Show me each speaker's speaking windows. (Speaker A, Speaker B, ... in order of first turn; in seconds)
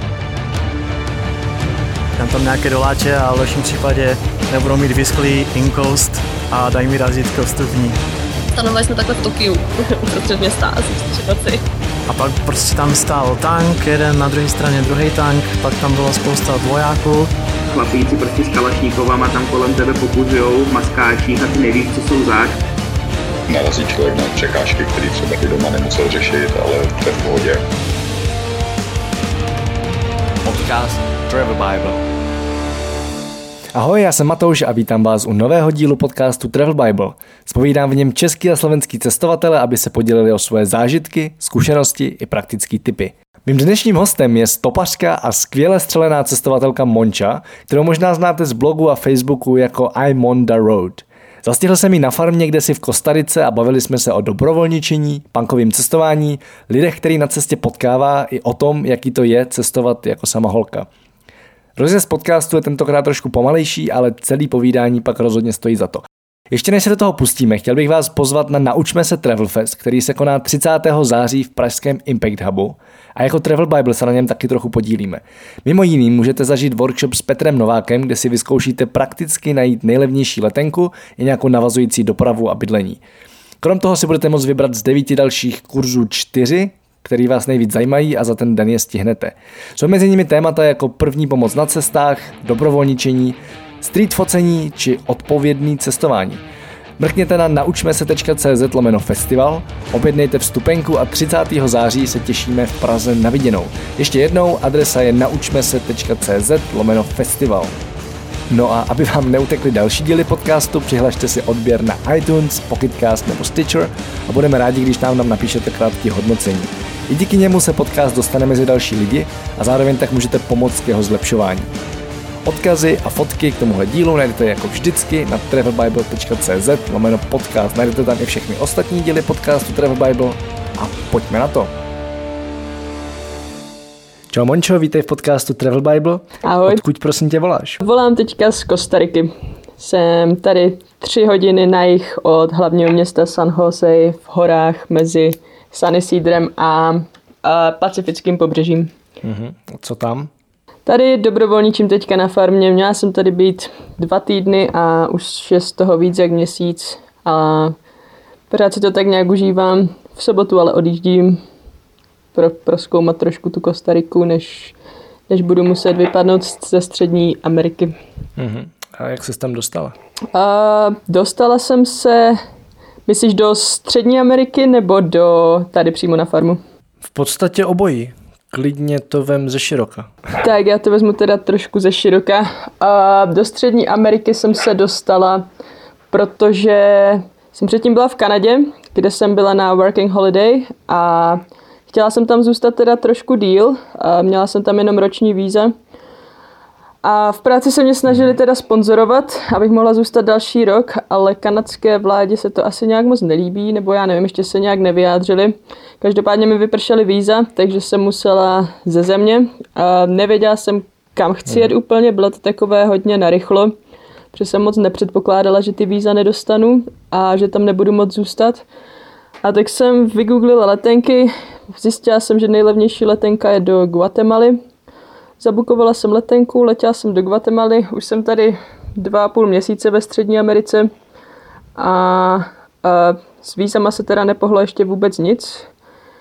Speaker A: 2.2-8.0, 12.1-17.3
Speaker B: 8.6-11.6
Speaker C: 17.7-22.6
Speaker D: 23.5-27.6
Speaker E: 30.4-32.0, 33.8-60.9, 61.8-83.0, 83.6-96.4, 97.0-107.8, 108.5-121.7, 122.5-131.7, 134.3-137.8, 149.2-150.3, 168.4-170.0, 177.0-180.1
Speaker F: 136.4-136.8, 137.8-148.9, 150.9-157.8, 158.5-161.4, 162.3-164.8, 165.3-167.9, 170.3-172.4, 173.1-176.6, 180.4-185.5, 186.1-195.7, 197.0-213.7, 214.3-218.7, 219.4-224.6, 225.4-230.9, 231.8-235.7